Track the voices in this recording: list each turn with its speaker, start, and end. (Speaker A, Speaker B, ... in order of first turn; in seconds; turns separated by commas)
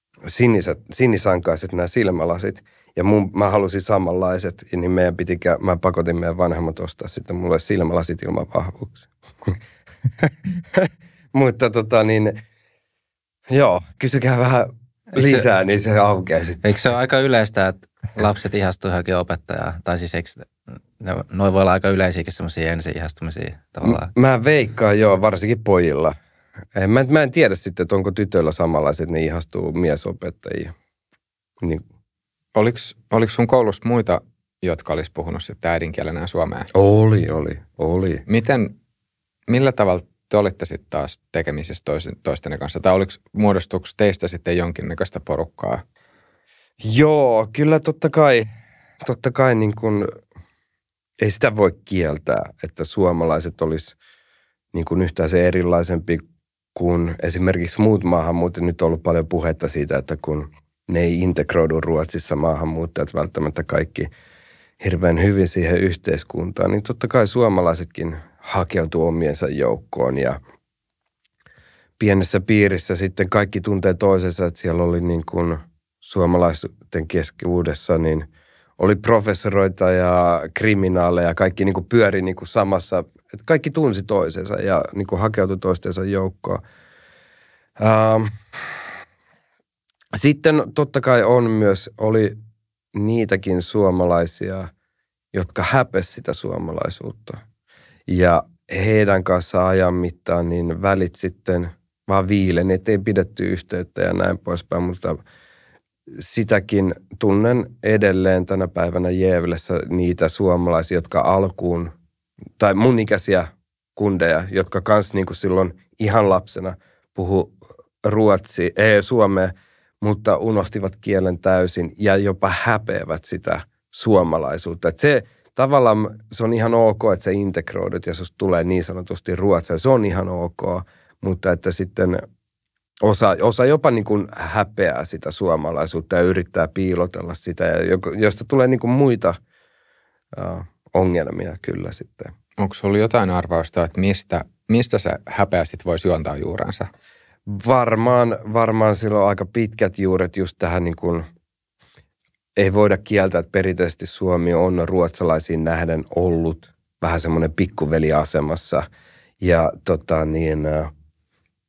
Speaker A: 0.3-9.6, Speaker A: 10.2-12.4, Speaker A: 13.5-16.6, Speaker B: 15.2-15.4, Speaker B: 16.6-24.1, Speaker A: 23.8-26.1, Speaker A: 26.7-30.7, Speaker C: 32.5-36.7, Speaker A: 36.7-38.2, Speaker C: 38.3-38.8, Speaker C: 39.5-45.8, Speaker A: 46.8-48.5, Speaker A: 49.0-50.1, Speaker A: 51.2-53.9, Speaker A: 54.7-56.2, Speaker A: 56.7-64.1, Speaker A: 64.8-70.4, Speaker A: 72.0-86.6, Speaker A: 87.8-88.3, Speaker A: 90.1-92.4, Speaker A: 92.9-94.7, Speaker A: 95.3-97.4, Speaker A: 98.1-105.2, Speaker A: 106.2-111.9, Speaker A: 112.6-132.2, Speaker A: 133.0-139.4, Speaker A: 140.3-142.3, Speaker C: 142.6-146.9, Speaker A: 147.4-151.2, Speaker A: 152.6-158.9, Speaker A: 159.4-160.9